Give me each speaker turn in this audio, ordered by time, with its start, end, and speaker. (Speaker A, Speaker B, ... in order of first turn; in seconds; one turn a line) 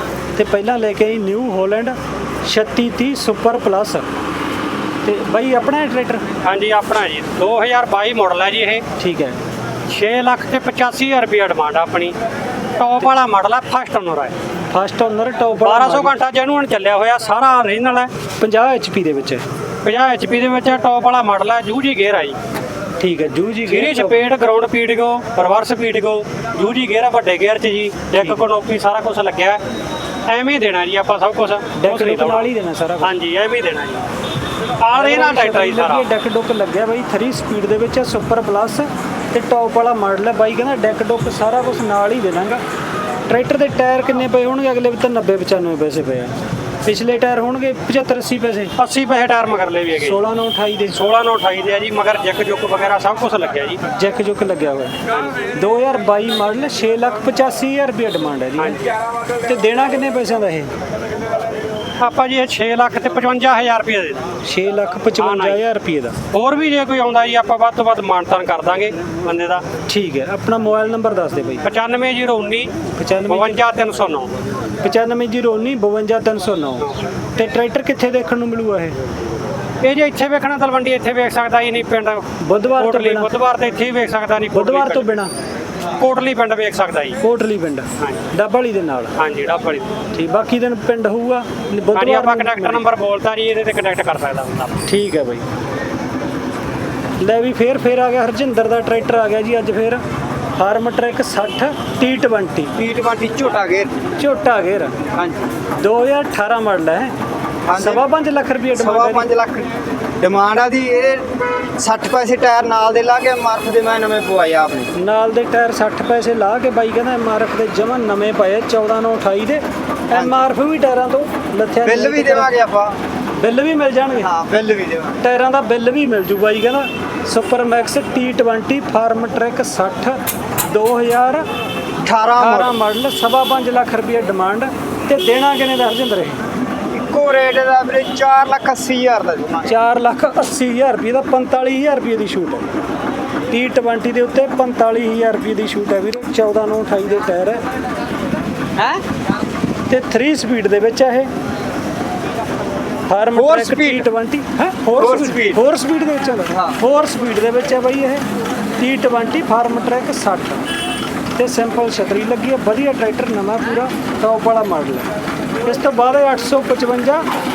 Speaker A: 0.4-4.1
Speaker A: 5.0-6.3
Speaker B: 6.4-8.8
Speaker A: 9.0-9.4
Speaker B: 9.9-12.2
Speaker B: 12.8-14.3
Speaker A: 14.7-16.1
Speaker B: 15.6-18.1
Speaker A: 18.4-19.4
Speaker B: 19.8-22.4
Speaker A: 23.0-24.3
Speaker B: 23.7-29.6
Speaker A: 28.2-28.4
Speaker B: 30.3-32.5
Speaker A: 31.8-33.1
Speaker B: 33.0-34.1
Speaker B: 34.8-36.1
Speaker A: 35.0-42.6
Speaker A: 43.3-48.7
Speaker B: 48.8-50.2
Speaker A: 50.0-51.0
Speaker B: 50.9-53.8
Speaker A: 53.9-55.0
Speaker A: 55.5-58.8
Speaker A: 59.5-60.7
Speaker B: 62.0-64.3
Speaker A: 64.4-66.2
Speaker B: 65.2-65.6
Speaker B: 66.3-69.6
Speaker A: 69.9-71.7
Speaker B: 71.6-72.7
Speaker A: 73.0-73.6
Speaker B: 73.3-74.3
Speaker A: 74.8-79.0
Speaker B: 79.8-82.2
Speaker A: 82.4-83.3
Speaker B: 82.8-85.1
Speaker A: 84.5-85.3
Speaker B: 86.0-87.2
Speaker A: 87.2-89.1
Speaker B: 89.2-89.9
Speaker A: 90.1-92.8
Speaker B: 91.9-94.8
Speaker A: 94.9-95.5
Speaker A: 97.2-100.0
Speaker A: 100.6-102.7
Speaker C: 102.8-103.9
Speaker A: 104.2-105.0
Speaker C: 105.1-105.5
Speaker A: 105.7-107.2
Speaker C: 107.7-108.0
Speaker A: 107.8-109.3
Speaker C: 108.7-109.7
Speaker C: 110.2-111.3
Speaker C: 111.8-114.9
Speaker A: 114.9-122.5
Speaker C: 121.8-123.0
Speaker A: 123.4-124.3
Speaker C: 124.2-125.2
Speaker A: 125.2-131.5
Speaker C: 132.0-132.8
Speaker A: 132.4-136.4
Speaker C: 136.9-139.7
Speaker A: 139.7-142.7
Speaker A: 143.5-147.6
Speaker C: 148.8-149.0
Speaker A: 149.9-151.3
Speaker A: 153.1-158.2
Speaker C: 153.3-154.1
Speaker C: 155.0-155.6
Speaker C: 156.5-156.8
Speaker A: 158.8-160.7
Speaker A: 161.4-165.1
Speaker A: 165.6-167.2